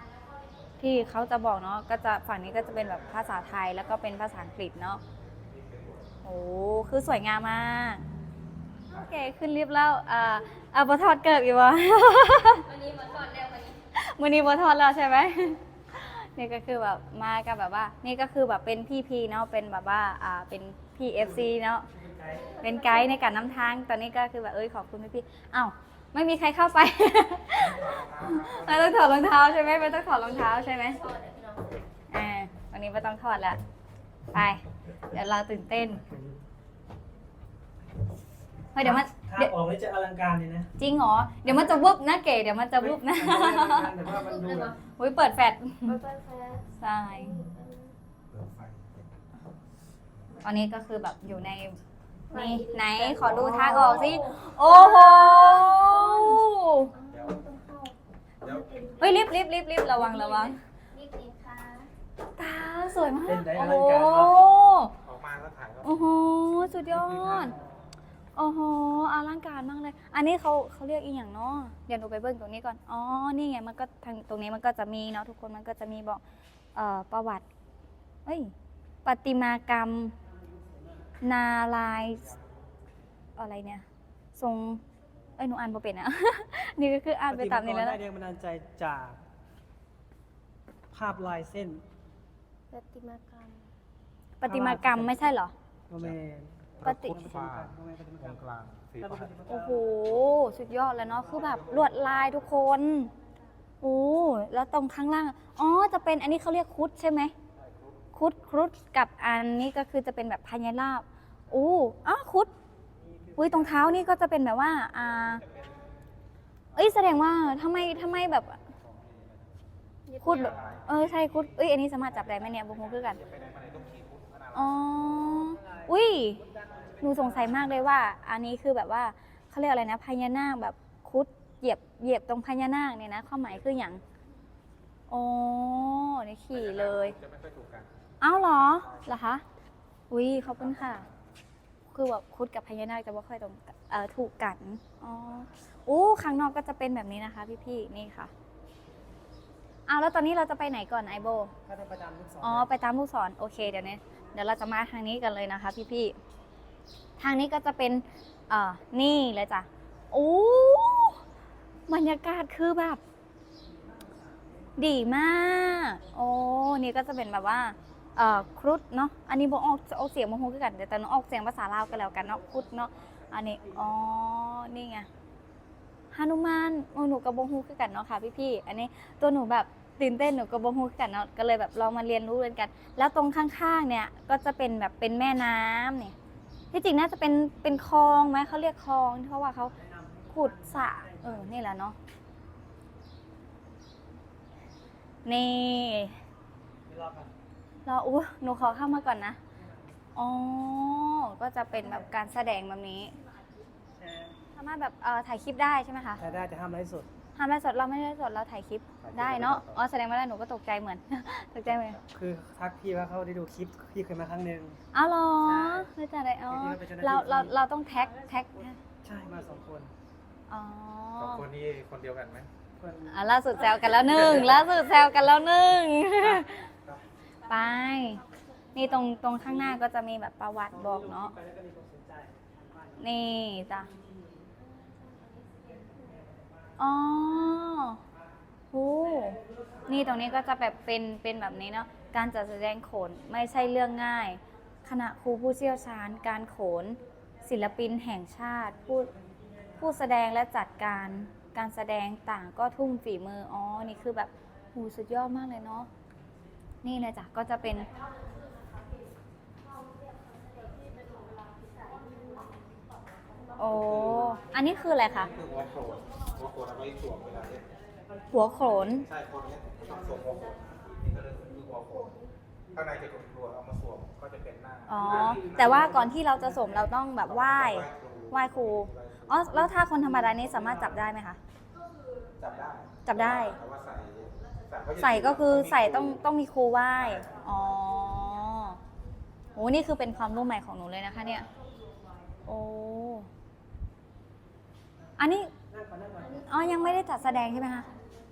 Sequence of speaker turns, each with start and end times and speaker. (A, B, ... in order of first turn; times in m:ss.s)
0:00.8-0:05.0 A
0:05.4-0:06.0 B
0:06.2-0:08.0 A
0:08.9-0:12.6 A
0:12.6-0:13.8 C
0:14.0-0:21.9 A
0:21.2-0:22.4 D
0:22.2-0:23.4 C
0:22.6-0:31.0 A
0:27.6-0:29.1 B
0:29.6-0:31.8 C
0:32.1-0:33.6 A
0:34.3-0:36.0 A
0:35.9-0:36.4 D
0:38.8-0:39.5 A
0:38.8-0:40.7 D
0:40.8-0:44.0 A
0:41.5-0:41.8 D
0:42.8-0:44.8 D
0:44.0-0:44.8 C
0:44.8-0:46.0 A
0:45.9-0:48.0 C
0:46.8-0:47.4 A
0:48.4-0:48.9 B
0:50.4-0:51.8 A
0:52.3-0:59.4 C
0:52.3-0:56.9 A
0:57.1-0:57.4 B
0:59.0-1:00.6 A
0:59.9-1:01.9 C
1:02.4-1:04.9 A
1:03.2-1:04.4 D
1:05.0-1:06.0 B
1:05.8-1:07.6 A
1:06.9-1:07.6 B
1:08.4-1:16.2 A
1:16.8-1:17.4 A
1:18.3-1:18.5 A
1:19.0-1:20.1 A
1:21.2-1:22.4 A
1:23.4-1:23.8 A
1:24.4-1:24.8 A
1:25.4-1:28.0 A
1:27.3-1:29.2 D
1:30.9-1:31.8 D
1:32.7-1:33.7 C
1:34.4-1:35.5 A
1:34.5-1:35.2 D
1:35.9-1:38.4 D
1:36.8-1:39.5 B
1:36.8-1:37.3 A
1:39.0-1:39.8 D
1:39.5-1:43.1 A
1:41.3-1:42.2 B
1:43.8-1:47.3 A
1:48.1-1:52.5 A
1:53.0-1:53.9 D
1:53.4-1:55.4 A
1:56.8-1:58.6 A
2:00.1-2:00.6 C
2:00.2-2:03.2 A
2:00.5-2:01.1 B
2:03.1-2:04.7 B
2:04.5-2:06.4 A
2:05.2-2:07.8 D
2:07.0-2:14.0 A
2:15.1-2:17.2 A
2:16.5-2:17.9 B
2:18.2-2:19.4 A
2:18.8-2:19.1 B
2:20.1-2:21.1 A
2:21.9-2:28.3 A
2:29.9-2:31.5 A
2:31.7-2:32.7 D
2:32.4-2:36.2 A
2:37.2-2:41.2 A
2:41.9-2:43.0 A
2:44.8-2:55.1 A
2:56.1-3:06.2 A
3:06.7-3:09.8 A
3:09.8-3:11.6 D
3:10.3-3:12.0 A
3:15.2-3:16.2 A
3:16.9-3:17.3 D
3:17.9-3:19.4 A
3:19.6-3:20.0 D
3:20.2-3:23.1 A
3:24.0-3:24.4 D
3:24.5-3:26.2 A
3:26.2-3:27.1 D
3:27.4-3:32.0 A
3:29.0-3:29.8 B
3:32.1-3:34.8 D
3:34.9-3:38.8 A
3:35.4-3:35.9 D
3:36.5-3:37.6 D
3:38.2-3:39.9 D
3:40.5-3:41.4 A
3:41.2-3:42.5 B
3:42.8-3:44.2 D
3:43.1-3:46.7 A
3:44.1-3:44.6 B
3:47.5-3:48.2 A
3:48.8-3:51.4 A
3:49.4-3:49.8 D
3:50.7-3:53.0 D
3:53.0-3:53.9 A
3:56.8-3:58.0 A
3:58.7-4:09.1 A
4:09.8-4:15.9 A
4:16.8-4:17.9 A
4:23.6-4:25.3 A
4:23.8-4:24.2 B
4:25.2-4:27.7 B
4:28.3-4:29.1 A
4:29.0-4:32.2 B
4:32.7-4:36.0 B
4:34.9-4:41.4 A
4:35.0-4:36.9 D
4:37.2-4:39.6 B
4:40.0-4:41.0 D
4:42.4-4:46.2 B
4:43.0-4:43.6 A
4:45.0-4:48.8 A
4:47.0-4:47.4 B
4:49.6-4:51.5 A
4:52.4-4:53.3 A
4:55.2-4:55.5 A
4:55.6-4:56.5 D
4:56.3-4:57.9 A